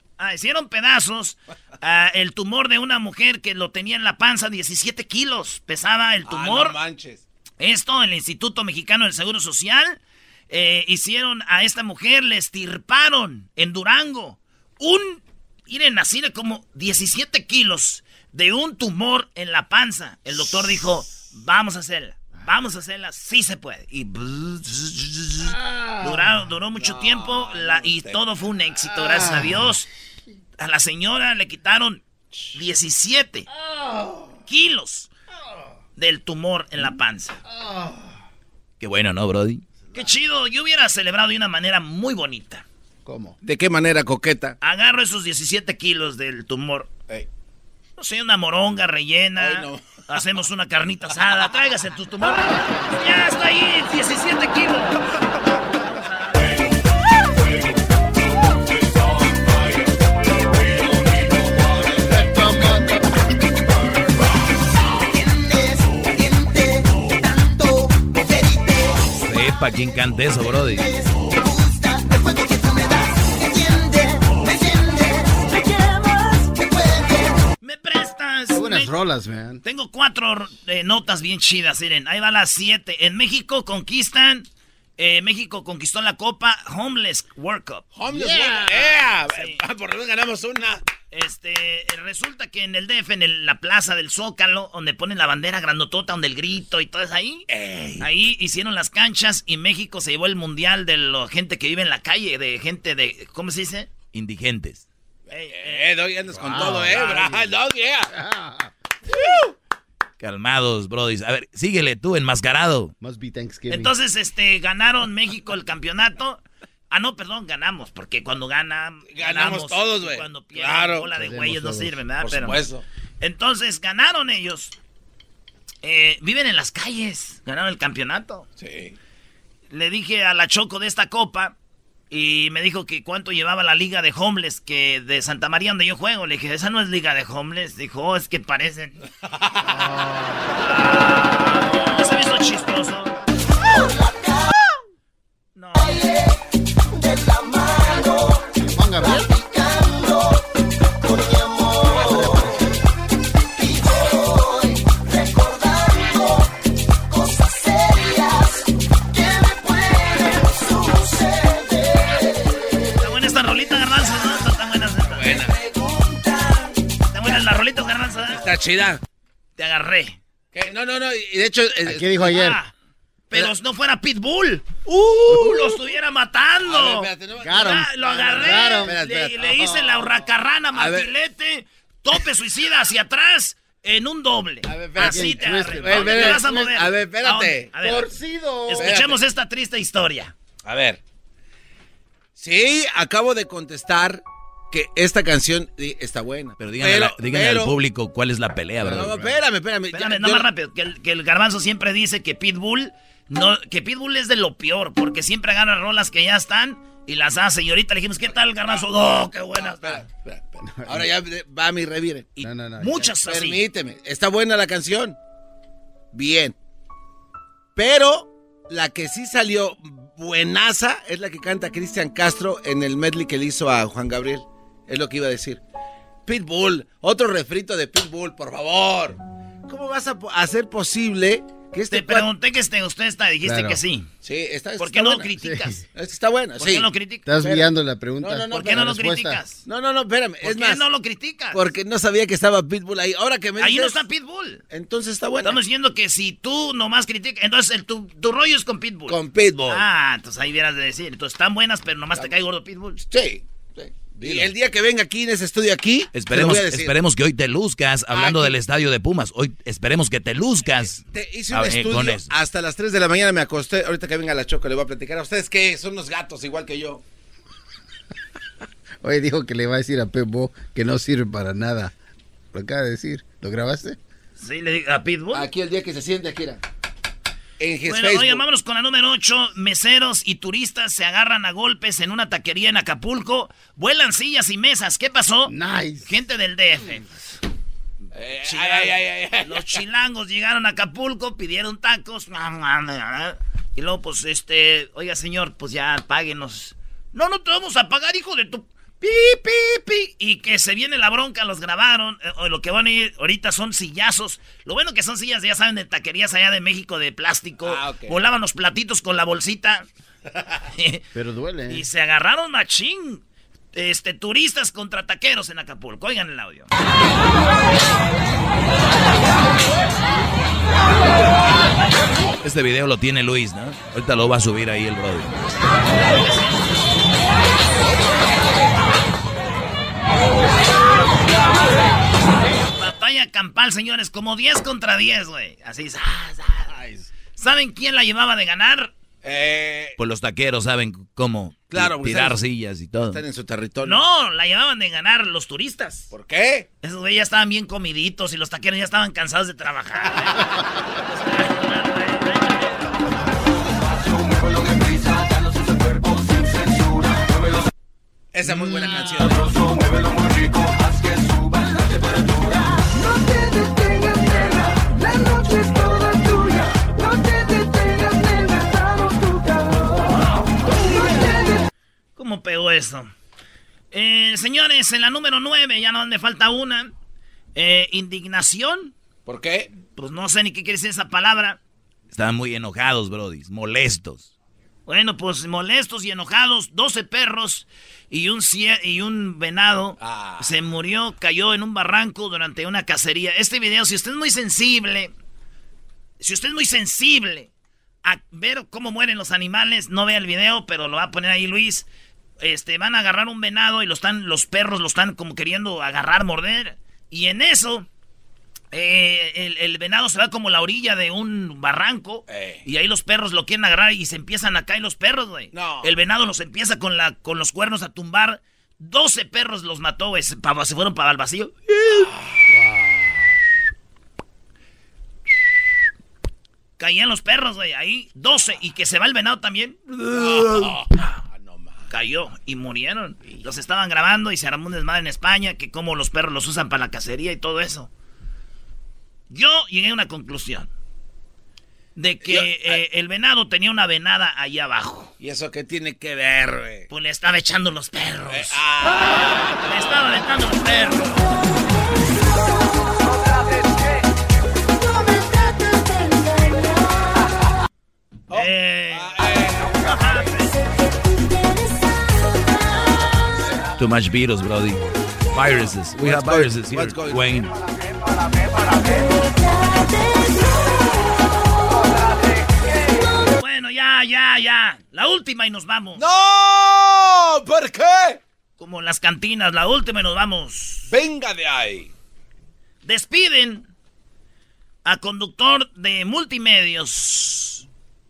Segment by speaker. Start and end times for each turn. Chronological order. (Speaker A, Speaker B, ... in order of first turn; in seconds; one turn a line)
Speaker A: 0.2-6.8
Speaker B: 6.2-7.2
Speaker A: 7.6-29.9
Speaker B: 26.8-28.2
Speaker A: 30.6-32.0
Speaker A: 32.5-33.5
Speaker A: 34.5-35.1
Speaker A: 36.0-37.4
Speaker C: 37.6-38.0
Speaker D: 38.8-39.6
Speaker A: 39.9-42.6
Speaker C: 43.0-43.4
Speaker B: 43.4-44.5
Speaker A: 44.6-46.9
Speaker A: 48.0-55.0
Speaker B: 49.4-50.0
Speaker A: 55.8-56.7
Speaker C: 62.1-62.8
Speaker D: 69.2-70.9
Speaker A: 77.6-78.9
Speaker C: 78.5-79.6
Speaker A: 79.6-87.8
Speaker B: 87.9-90.8
Speaker A: 89.2-89.6
Speaker A: 91.1-97.5
Speaker B: 97.5-98.1
Speaker A: 98.0-103.9
Speaker D: 104.1-104.8
Speaker A: 105.3-105.9
Speaker B: 105.5-108.1
Speaker C: 106.4-107.5
Speaker A: 106.5-107.3
Speaker C: 108.1-108.7
Speaker D: 110.2-112.9
Speaker C: 113.0-113.9
Speaker A: 113.7-122.6
Speaker B: 119.1-121.1
Speaker C: 121.2-122.0
Speaker B: 122.2-122.8
Speaker A: 123.2-124.7
Speaker A: 125.8-128.4
Speaker B: 128.6-128.9
Speaker A: 129.7-131.5
Speaker A: 132.1-139.0
Speaker C: 139.7-140.4
Speaker A: 140.6-143.1
Speaker A: 145.5-146.1
Speaker C: 148.6-149.2
Speaker C: 152.2-152.5
Speaker E: 155.6-156.2
Speaker E: 157.2-158.2
Speaker E: 159.2-160.3
Speaker E: 161.0-161.4
Speaker A: 163.0-165.4
Speaker B: 165.1-165.5
Speaker A: 167.1-168.4
Speaker B: 168.2-169.0
Speaker A: 169.6-170.2
Speaker B: 170.5-172.1
Speaker C: 171.8-172.6
Speaker A: 172.3-172.7
Speaker A: 173.3-188.1
Speaker B: 176.6-179.7
Speaker C: 177.4-179.6
Speaker B: 180.7-181.1
Speaker B: 184.7-187.7
Speaker C: 185.0-186.7
Speaker C: 187.8-189.0
Speaker A: 188.7-190.3
Speaker B: 188.8-189.2
Speaker B: 190.6-191.0
Speaker B: 192.3-197.7
Speaker D: 196.6-199.2
Speaker C: 198.8-199.3
Speaker B: 198.9-200.5
Speaker A: 199.9-210.0
Speaker B: 209.6-212.3
Speaker C: 210.6-211.1
Speaker A: 212.3-213.7
Speaker C: 212.4-213.0
Speaker B: 213.2-215.2
Speaker B: 216.1-216.5
Speaker B: 217.8-225.6
Speaker B: 226.2-232.3
Speaker A: 231.9-234.1
Speaker C: 233.4-233.8
Speaker B: 234.2-235.3
Speaker A: 234.8-235.8
Speaker C: 235.4-235.8
Speaker B: 235.9-236.9
Speaker A: 236.6-237.3
Speaker C: 237.2-239.4
Speaker B: 237.4-237.7
Speaker B: 238.2-238.9
Speaker A: 238.5-239.6
Speaker B: 239.6-240.8
Speaker A: 240.4-241.6
Speaker B: 241.5-244.0
Speaker A: 243.6-244.6
Speaker B: 244.7-245.6
Speaker A: 245.4-253.0
Speaker B: 249.1-249.8
Speaker B: 253.1-256.9
Speaker D: 256.1-262.3
Speaker B: 258.1-258.6
Speaker B: 261.0-267.0
Speaker C: 269.0-271.9
Speaker C: 272.5-274.0
Speaker A: 274.4-275.5
Speaker B: 275.3-276.6
Speaker B: 277.6-278.4
Speaker A: 277.9-285.5
Speaker C: 285.4-286.1
Speaker A: 286.1-287.4
Speaker B: 288.1-289.6
Speaker A: 288.4-309.9
Speaker B: 307.6-308.1
Speaker A: 310.8-311.0
Speaker C: 311.1-311.8
Speaker A: 311.7-313.2
Speaker A: 313.7-316.7
Speaker D: 322.4-325.3
Speaker A: 325.9-326.6
Speaker A: 332.7-336.8
Speaker C: 336.7-337.1
Speaker A: 337.3-338.9
Speaker B: 339.2-339.9
Speaker D: 340.0-343.2
Speaker B: 341.7-342.4
Speaker B: 343.0-344.0
Speaker A: 343.8-346.1
Speaker B: 346.1-346.7
Speaker A: 346.8-350.5
Speaker A: 351.1-352.9
Speaker B: 358.3-359.5
Speaker E: 363.0-364.3
Speaker E: 365.1-369.8
Speaker E: 371.1-371.5
Speaker A: 372.1-373.1
Speaker A: 373.9-376.9
Speaker A: 377.5-378.9
Speaker B: 379.2-379.7
Speaker A: 379.9-381.6
Speaker D: 382.1-384.3
Speaker A: 384.9-395.1
Speaker B: 390.0-390.5
Speaker A: 396.2-397.5
Speaker A: 398.0-401.9
Speaker A: 402.4-407.9
Speaker A: 408.7-422.1
Speaker B: 412.3-412.6
Speaker B: 415.5-415.9
Speaker A: 426.8-431.1
Speaker B: 430.1-431.9
Speaker A: 431.9-437.9
Speaker A: 439.3-440.7
Speaker A: 441.9-445.1
Speaker B: 442.2-442.8
Speaker B: 445.2-446.9
Speaker A: 446.9-448.6
Speaker B: 448.3-449.7
Speaker A: 449.6-451.2
Speaker E: 454.8-457.1
Speaker B: 458.3-459.9
Speaker A: 458.3-459.3
Speaker A: 459.8-460.5
Speaker E: 461.3-463.1
Speaker D: 463.8-467.5
Speaker B: 465.9-467.4
Speaker E: 468.9-470.8
Speaker A: 473.4-476.0
Speaker B: 475.9-478.2
Speaker A: 478.6-480.9
Speaker B: 480.9-481.9
Speaker A: 482.8-483.7
Speaker A: 484.8-487.6